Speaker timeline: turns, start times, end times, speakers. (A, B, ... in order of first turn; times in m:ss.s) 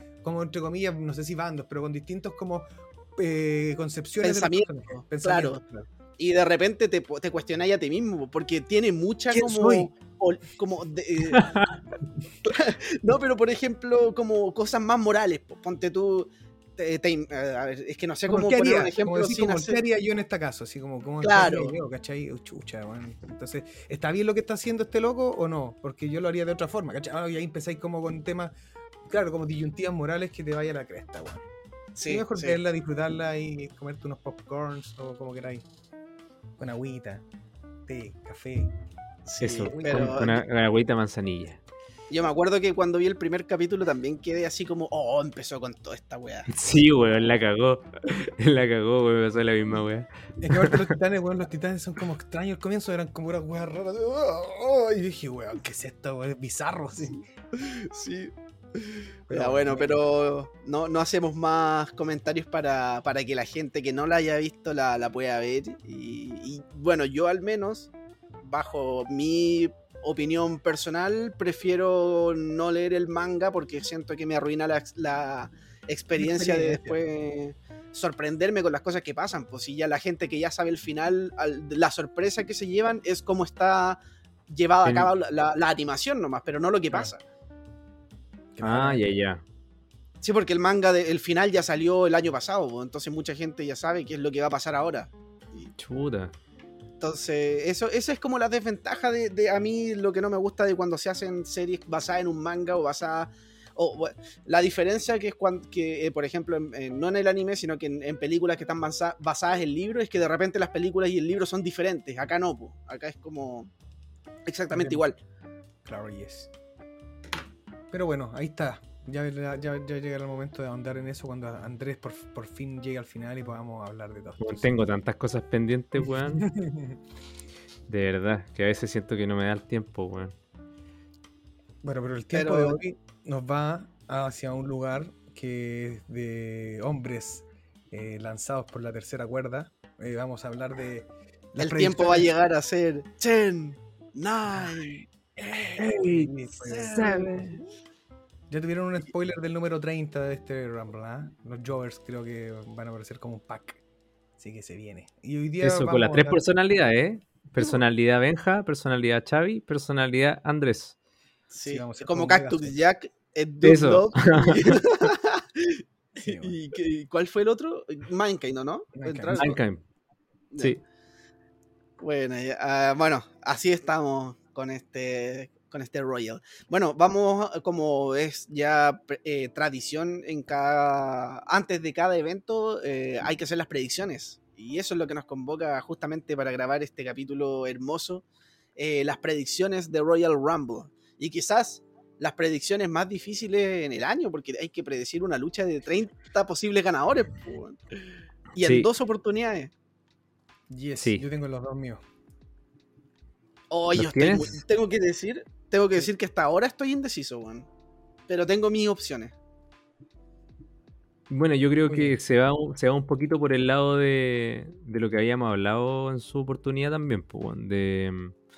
0:00.2-0:05.9 A
0:04.2-0:05.6 B
0:06.2-0:11.6 B
0:09.3-0:09.9 A
0:11.3-0:11.7 C
0:12.4-0:19.8 B
0:18.3-0:28.5 A
0:21.2-0:21.7 B
0:29.1-0:31.4 A
0:32.0-0:32.6 B
0:32.0-0:35.6 A
0:36.6-0:37.2 A
0:37.9-0:38.7 A
0:39.2-0:40.4 B
0:39.4-0:41.6 C
0:39.7-0:40.3 A
0:42.1-0:46.5 B
0:46.5-0:50.9 C
0:50.4-0:57.2 A
0:57.5-1:07.9 B
0:59.3-1:00.0 A
1:08.4-1:27.2 B
1:16.2-1:17.0 A
1:24.8-1:25.1 C
1:28.5-1:29.1 A
1:28.6-1:29.4 C
1:30.2-1:35.7 B
1:35.8-1:36.3 C
1:37.0-1:53.7 B
1:54.5-1:55.2 B
1:54.7-1:55.0 A
1:55.8-1:56.5 A
1:57.9-2:04.8 A
2:04.4-2:06.5 C
2:06.2-2:07.0 A
2:07.9-2:10.3 C
2:11.8-2:22.3 A
2:12.3-2:12.8 B
2:21.6-2:25.1 B
2:25.4-2:27.6 A
2:25.8-2:27.6 C
2:26.7-2:27.1 B
2:28.5-2:33.8 A
2:34.4-2:36.4 A
2:35.6-2:40.9 C
2:41.5-2:49.6 B
2:41.6-2:42.8 A
2:43.6-2:44.8 C
2:46.1-2:46.5 A
2:48.9-2:49.6 A
2:49.3-2:49.8 C
2:52.0-3:08.2 B
3:08.8-3:19.7 B
3:18.6-3:18.9 C
3:20.7-3:22.0 A
3:23.7-3:27.7 B
3:23.9-3:24.5 C
3:28.3-3:29.3 B
3:31.3-3:38.3 C
3:31.9-3:32.2 A